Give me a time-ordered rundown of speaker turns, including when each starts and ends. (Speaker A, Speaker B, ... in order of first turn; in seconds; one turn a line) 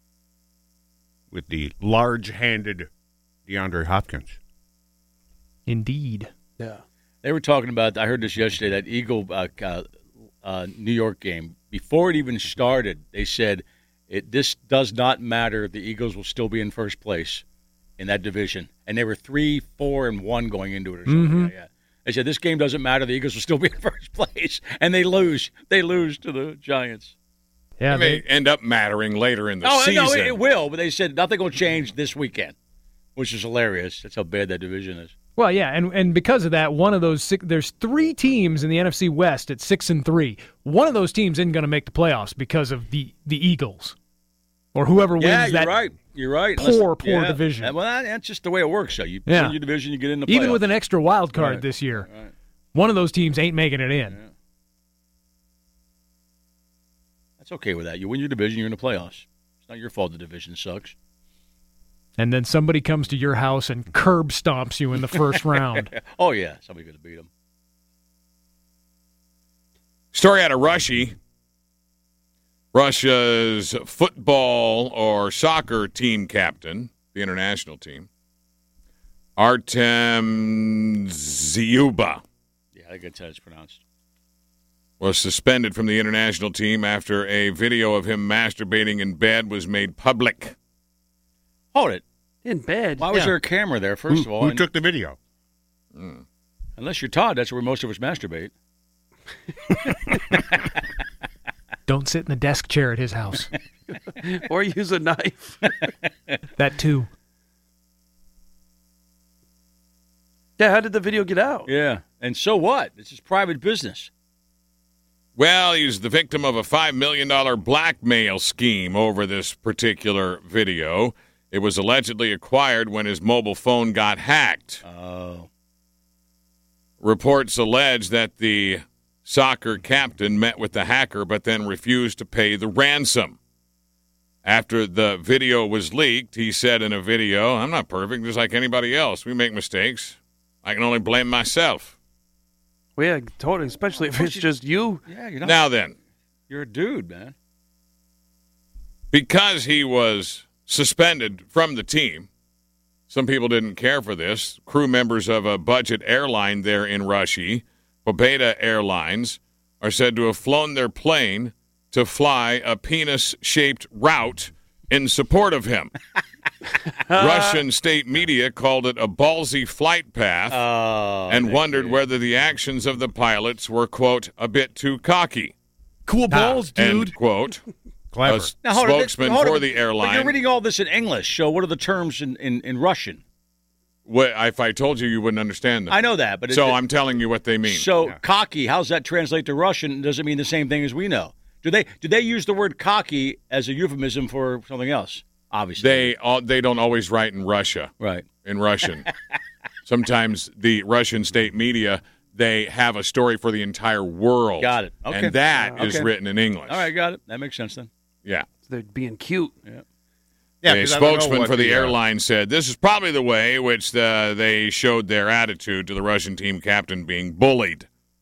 Speaker A: 1.3-2.9
Speaker A: 3.5-4.4
Speaker B: 5.7-6.3
Speaker C: 7.2-9.9
Speaker C: 10.4-17.4
Speaker C: 18.0-27.1
Speaker B: 21.1-21.5
Speaker B: 27.8-28.2
Speaker D: 27.9-30.4
Speaker C: 29.6-32.5
Speaker C: 33.1-35.1
Speaker B: 35.4-44.0
Speaker B: 44.7-45.7
Speaker C: 45.2-50.6
Speaker B: 46.5-47.8
Speaker B: 49.3-49.6
Speaker B: 50.2-52.1
Speaker C: 51.3-52.3
Speaker B: 52.7-54.2
Speaker C: 54.1-54.3
Speaker C: 57.4-60.9
Speaker B: 62.2-65.9
Speaker C: 65.8-67.3
Speaker D: 70.1-71.2
Speaker D: 72.7-78.1
Speaker D: 79.4-82.2
Speaker C: 82.7-83.8
Speaker D: 85.0-90.5
Speaker C: 91.7-92.0
Speaker E: 92.4-93.0
Speaker C: 93.0-94.6
Speaker A: 94.1-95.2
Speaker D: 95.9-96.2
Speaker C: 96.8-98.5
Speaker B: 101.9-103.5
Speaker E: 104.5-105.6
Speaker B: 106.6-107.1
Speaker E: 110.6-111.7
Speaker C: 111.7-114.1
Speaker D: 115.3-124.8
Speaker C: 124.8-125.5
Speaker D: 127.0-133.4
Speaker D: 134.4-141.9
Speaker E: 143.0-145.0
Speaker C: 144.0-144.5
Speaker C: 145.0-145.6
Speaker D: 145.4-145.9
Speaker C: 146.5-147.3
Speaker D: 149.1-152.3
Speaker D: 153.1-165.9
Speaker E: 167.1-167.6
Speaker D: 167.1-170.6
Speaker C: 170.5-172.0
Speaker D: 171.3-175.5
Speaker B: 176.1-177.1
Speaker A: 176.3-176.7
Speaker D: 176.7-177.6
Speaker A: 178.1-178.5
Speaker D: 178.2-180.4
Speaker C: 178.6-183.2
Speaker D: 184.1-187.9
Speaker C: 185.9-186.8
Speaker C: 187.7-196.1
Speaker D: 195.8-197.9
Speaker C: 198.0-198.3
Speaker D: 198.4-199.1
Speaker D: 199.8-206.9
Speaker C: 204.6-206.1
Speaker E: 205.5-205.8
Speaker C: 206.7-207.9
Speaker E: 208.7-209.5
Speaker A: 210.6-212.0
Speaker D: 210.6-217.9